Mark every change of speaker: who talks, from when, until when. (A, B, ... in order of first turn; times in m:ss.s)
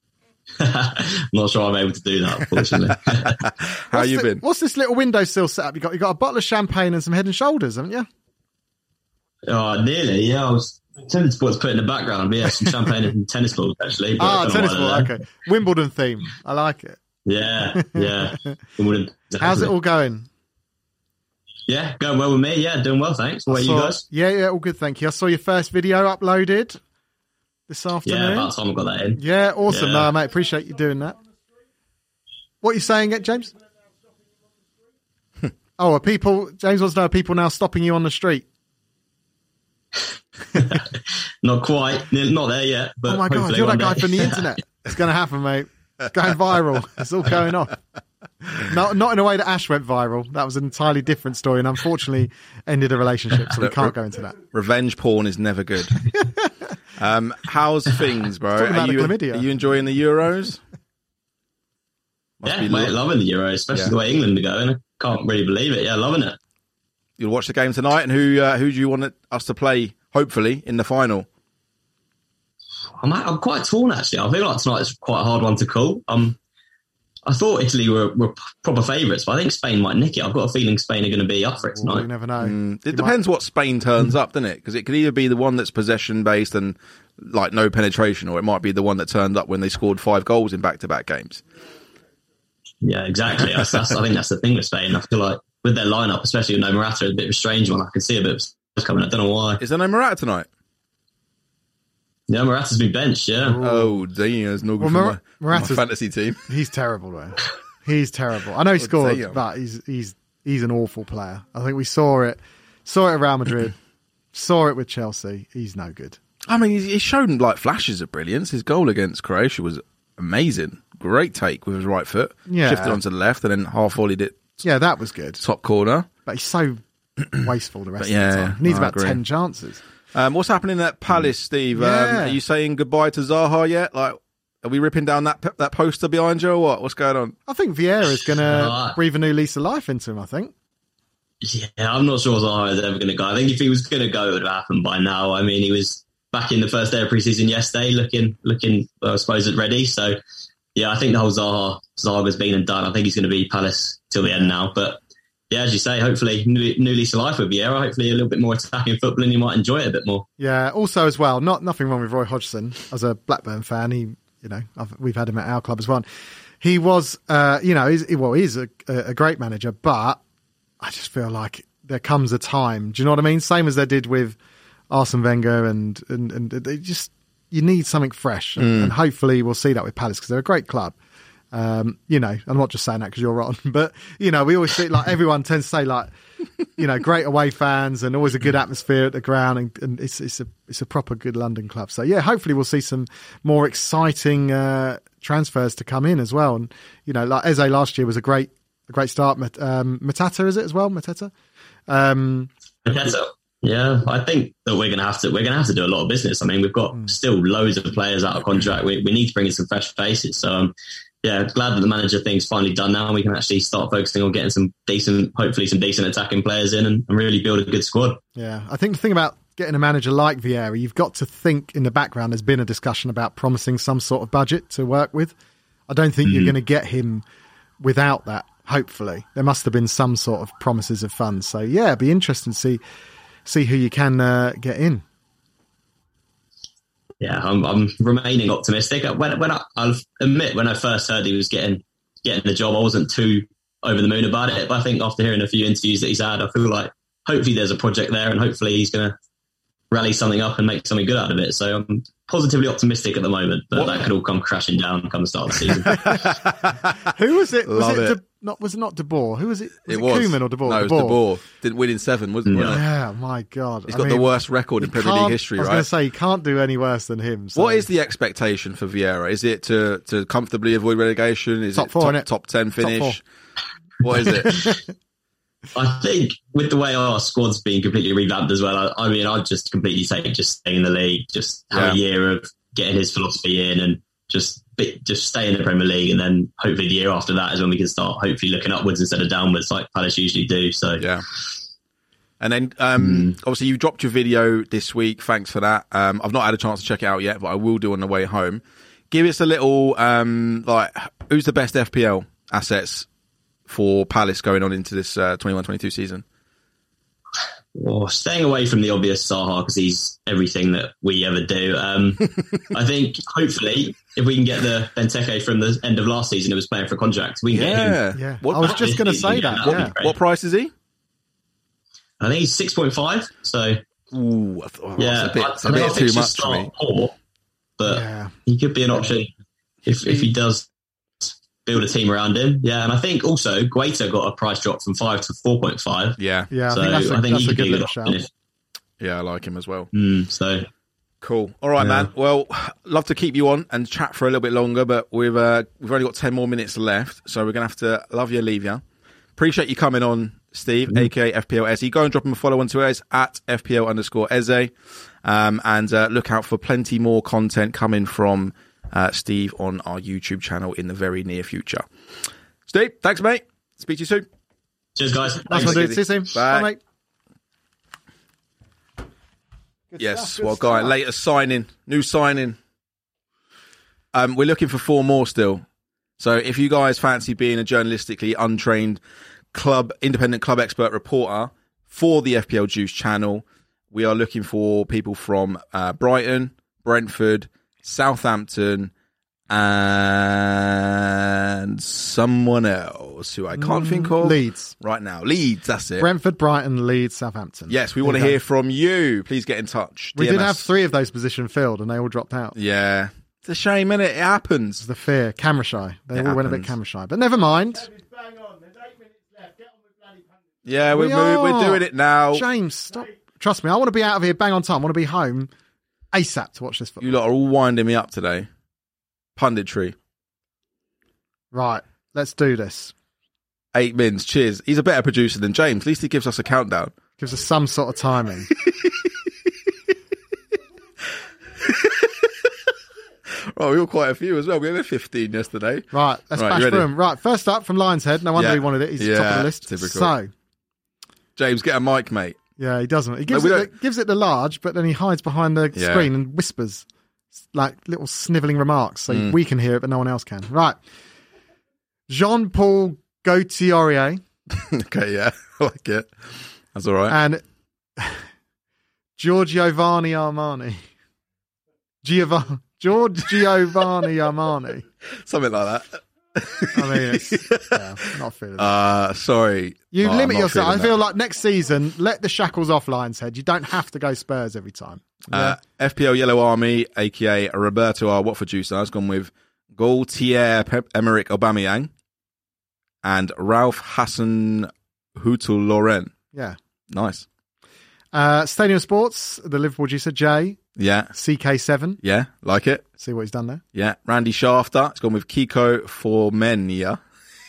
0:00.6-0:03.4 A
0:03.1-0:04.4 B
0:03.9-0:08.1 C
0:09.5-0:15.1 A
0:14.2-0:17.0 C
0:17.2-0:19.7 A
0:17.7-0:18.6 C
0:19.4-0:20.3 C
0:21.7-0:24.0 A
0:23.5-0:26.8 C
0:27.7-0:28.5 C
0:28.0-0:30.1 A
0:29.2-0:31.2 C
0:32.6-0:33.6 C
0:35.8-0:38.5 C
0:40.5-0:44.5 A
0:43.1-0:47.8 C
0:48.5-0:54.4 C
0:53.5-0:56.0 B
0:56.2-0:56.5 C
0:57.0-1:00.6 B
0:58.6-0:59.5 C
1:02.4-1:03.0 B
1:02.4-1:06.4 A
1:07.2-1:11.3 B
1:13.0-1:16.4 A
1:17.3-1:22.1 A
1:21.7-1:23.2 C
1:22.4-1:31.4 B
1:32.8-1:39.6 A
1:39.6-1:40.5 B
1:42.3-1:43.6 A
1:43.4-1:44.0 C
1:43.6-1:46.4 B
1:44.8-1:45.9 C
1:46.5-1:53.8 C
1:48.8-1:49.4 B
1:54.3-1:56.2 C
1:56.5-2:04.6 B
2:02.5-2:03.0 C
2:04.6-2:05.4 C
2:05.4-2:06.1 B
2:06.3-2:09.8 C
2:08.0-2:09.2 B
2:10.1-2:17.4 B
2:11.7-2:12.4 C
2:17.5-2:20.5 C
2:18.4-2:19.0 A
2:21.4-2:30.2 A
2:30.8-2:40.3 A
2:34.2-2:34.6 C
2:40.4-2:46.1 C
2:46.6-2:50.2 C
2:50.8-2:54.4 C
2:54.9-3:01.0 C
2:58.6-2:59.0 B
3:01.5-3:06.1 C
3:06.8-3:21.3 C
3:21.9-3:22.5 C
3:22.8-3:38.2 A
3:38.4-3:45.3 C
3:45.9-3:47.2 C
3:47.8-3:52.8 C
3:53.5-3:55.0 C
3:57.2-4:09.2 A
4:09.9-4:16.2 A
4:16.0-4:16.2 C
4:16.0-4:16.9 B
4:17.0-4:21.2 C
4:17.6-4:18.2 B
4:19.9-4:22.8 B
4:22.5-4:22.8 A
4:22.6-4:27.9 C
4:23.9-4:25.9 B
4:27.6-4:33.2 B
4:31.8-4:33.2 C
4:34.0-4:34.7 B
4:34.5-4:34.8 C
4:35.8-4:51.0 A
4:41.7-4:42.0 B
4:51.0-4:51.2 B
4:52.4-5:03.1 B
4:53.0-4:53.3 A
5:03.7-5:06.2 B
5:07.8-5:18.0 A
5:17.5-5:18.9 B
5:18.1-5:19.9 C
5:18.6-5:20.2 A
5:19.6-5:20.7 B
5:22.2-5:23.8 A
5:24.1-5:26.7 B
5:25.0-5:27.1 A
5:27.8-5:29.3 A
5:27.8-5:28.3 C
5:29.8-5:30.7 A
5:31.2-5:38.3 A
5:36.2-5:36.5 B
5:36.5-5:38.2 C
5:39.0-5:39.9 B
5:39.9-5:40.7 A
5:41.2-5:48.8 B
5:41.8-5:42.1 A
5:49.4-6:01.8 B
6:02.7-6:04.3 B
6:05.0-6:05.9 A
6:05.5-6:06.7 B
6:05.5-6:06.8 C
6:09.9-6:11.0 C
6:10.0-6:12.6 B
6:14.1-6:15.6 B
6:16.2-6:19.0 B
6:19.5-6:28.9 B
6:29.5-6:36.1 B
6:33.5-6:34.7 C
6:36.0-6:38.4 C
6:37.7-6:40.7 B
6:40.2-6:42.6 C
6:42.6-6:44.8 B
6:44.8-6:47.9 C
6:46.2-6:46.7 B
6:50.6-6:52.5 B
6:50.9-6:55.5 C
6:56.1-6:57.1 C
6:57.0-6:58.5 B
6:59.4-7:00.0 B
7:01.5-7:02.9 C
7:03.7-7:07.0 B
7:07.2-7:08.5 C
7:08.6-7:09.1 B
7:11.6-7:12.7 B
7:13.3-7:16.9 B
7:15.9-7:20.3 C
7:18.4-7:20.1 B
7:21.4-7:22.4 B
7:22.6-7:26.8 C
7:23.3-7:23.7 B
7:25.8-7:26.1 B
7:27.5-7:30.8 C
7:29.1-7:29.4 B
7:32.1-7:34.2 C
7:34.5-7:37.2 B
7:37.1-7:37.4 C
7:39.2-7:40.8 C
7:42.0-7:44.8 C
7:45.0-7:47.8 B
7:46.7-7:48.8 C
7:48.6-7:51.0 B
7:49.9-7:55.6 C
7:55.3-8:01.9 B
8:03.0-8:06.1 B
8:06.9-8:07.3 B
8:08.1-8:10.6 C
8:10.8-8:11.1 B
8:11.1-8:12.0 C
8:12.0-8:12.9 B
8:13.0-8:13.6 C
8:13.8-8:17.0 B